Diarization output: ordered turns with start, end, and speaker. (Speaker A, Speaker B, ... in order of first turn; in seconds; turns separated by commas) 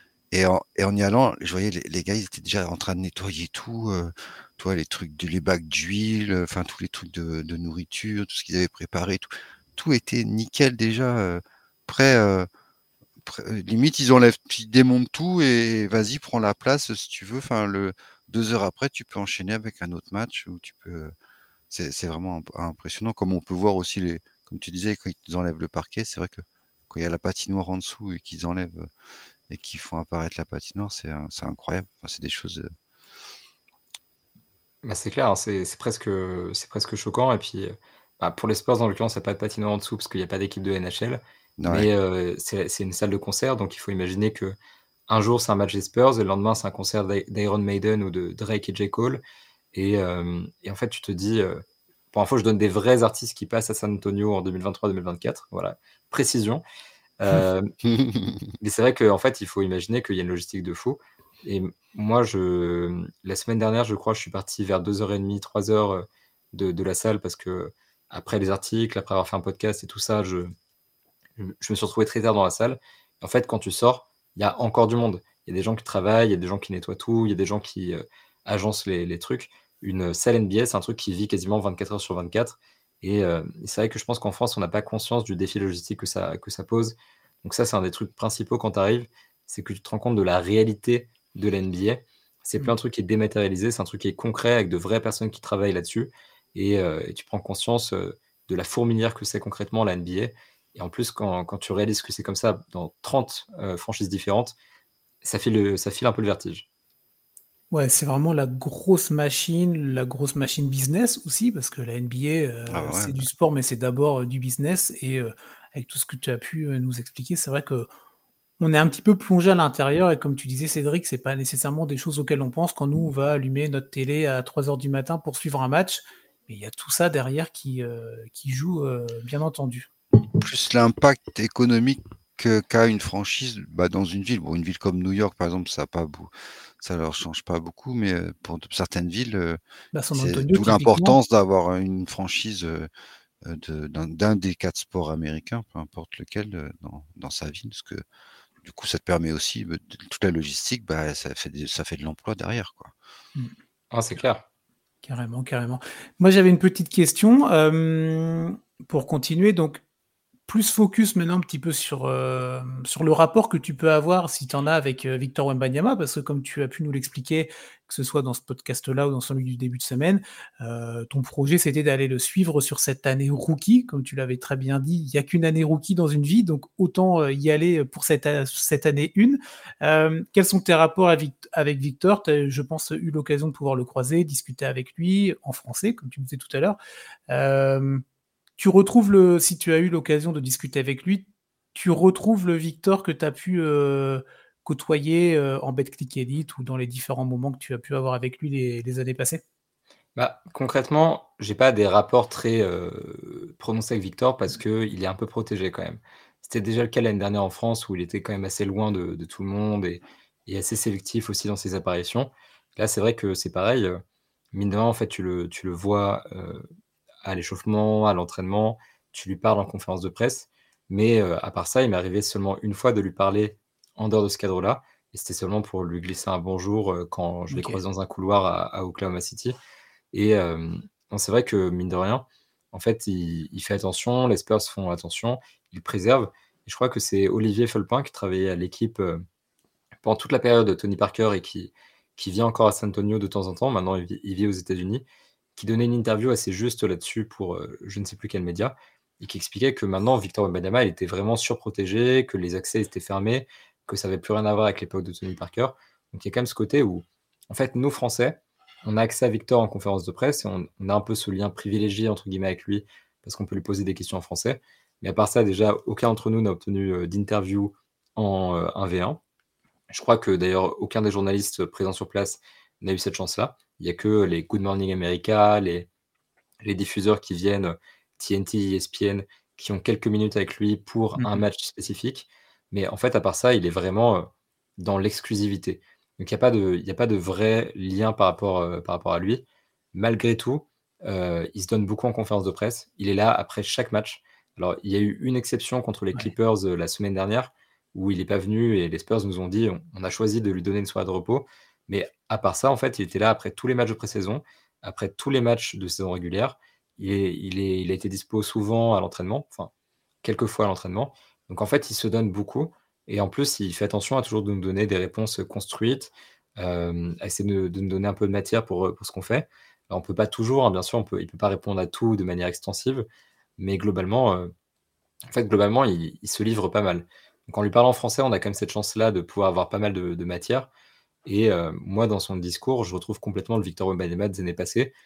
Speaker A: 0.3-12.5, Speaker A: 13.2-21.1, Speaker A: 21.7-28.9, Speaker A: 29.5-32.7, Speaker B: 34.8-44.6, Speaker A: 41.6-41.9, Speaker B: 45.1-49.2, Speaker B: 49.7-56.6, Speaker B: 57.2-57.7, Speaker A: 57.9-58.5, Speaker B: 58.6-70.5, Speaker B: 71.4-104.6, Speaker B: 105.2-106.7, Speaker C: 107.7-117.9, Speaker A: 112.7-113.2, Speaker C: 118.6-129.9, Speaker A: 130.3-139.6, Speaker C: 139.9-141.2, Speaker A: 140.1-142.9, Speaker A: 143.4-148.0, Speaker A: 148.6-152.9, Speaker B: 153.9-154.4, Speaker C: 155.0-159.8, Speaker C: 160.5-186.8, Speaker C: 187.3-188.0, Speaker C: 188.6-199.4, Speaker B: 200.2-214.0, Speaker B: 214.5-216.6, Speaker B: 217.2-229.6, Speaker C: 227.5-227.8, Speaker B: 230.1-239.2, Speaker B: 240.0-245.1, Speaker B: 245.6-269.2, Speaker B: 269.9-275.9, Speaker B: 276.6-309.7, Speaker C: 281.2-281.4, Speaker B: 310.2-323.1, Speaker B: 323.6-324.5, Speaker B: 325.3-330.7, Speaker B: 331.2-334.9